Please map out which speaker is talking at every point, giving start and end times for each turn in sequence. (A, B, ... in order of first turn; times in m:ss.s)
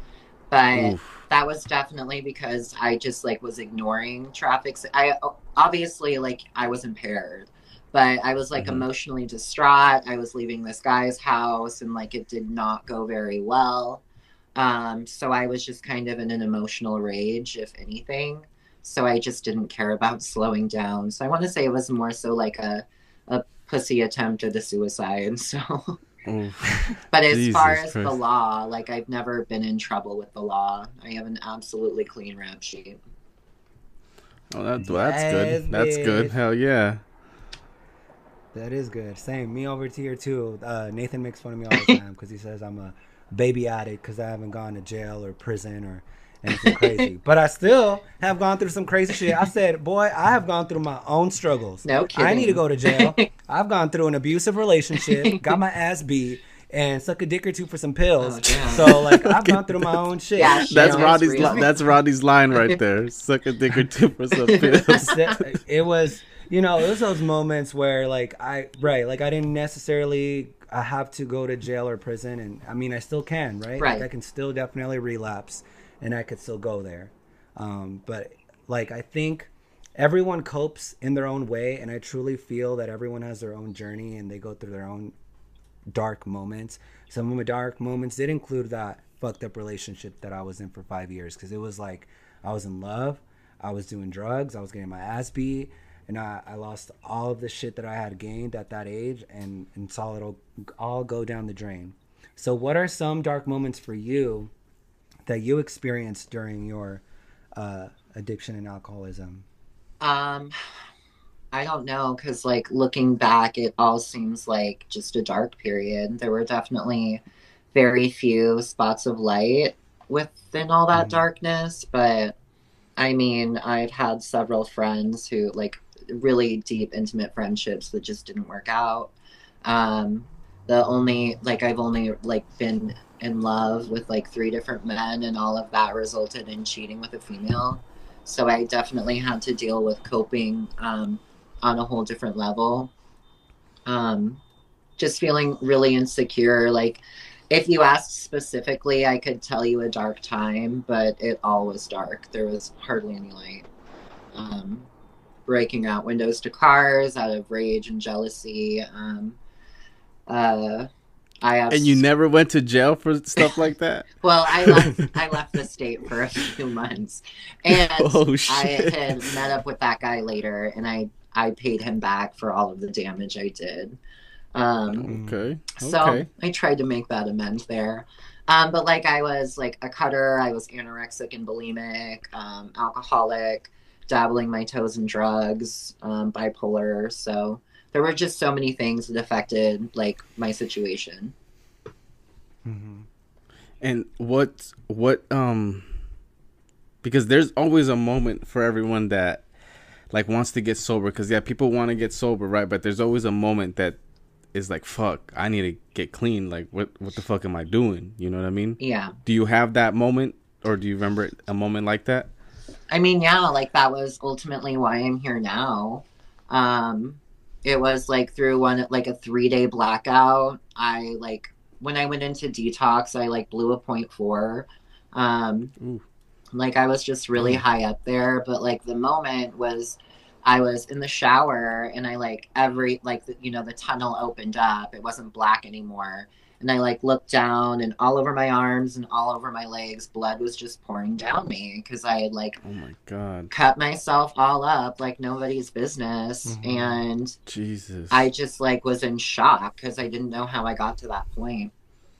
0:00.5-0:14.0 A
0:00.7-0:01.2 B
0:14.6-0:26.0 A
0:26.2-0:28.2 B
0:27.1-0:33.0 A
0:34.5-0:37.0 B
0:34.8-0:36.3 C
0:38.5-1:01.7 C
0:46.6-0:47.0 A
0:51.8-0:53.3 A
0:55.0-0:55.5 A
0:58.2-0:58.9 A
0:58.8-1:05.4 B
1:00.4-1:01.7 A
1:04.4-1:05.4 A
1:04.9-1:25.1 C
1:13.8-1:14.0 A
1:25.9-1:44.5 C
1:45.2-1:47.0 C
1:47.6-1:49.4 C
1:50.0-1:50.5 A
1:51.5-1:57.2 A
1:57.7-2:02.4 A
2:00.9-2:01.2 C
2:03.0-2:09.1 A
2:09.6-2:22.9 A
2:23.8-2:24.4 A
2:25.0-2:33.6 A
2:34.3-2:34.9 A
2:35.5-2:39.4 A
2:40.3-2:40.9 A
2:41.4-2:42.0 A
2:41.7-2:45.0 B
2:44.2-2:54.0 A
2:47.7-2:49.3 B
2:54.5-2:55.1 A
2:54.9-2:56.3 B
2:55.1-2:55.4 C
2:55.8-3:11.3 A
3:12.6-3:13.1 C
3:13.8-3:15.9 B
3:17.0-3:19.4 B
3:20.1-3:24.0 B
3:24.5-3:32.3 B
3:28.8-3:29.1 A
3:32.9-3:45.7 A
3:46.5-4:02.6 A
4:02.6-4:03.5 B
4:03.5-4:07.4 A
4:06.4-4:07.0 C
4:07.4-4:08.3 B
4:08.1-4:11.7 A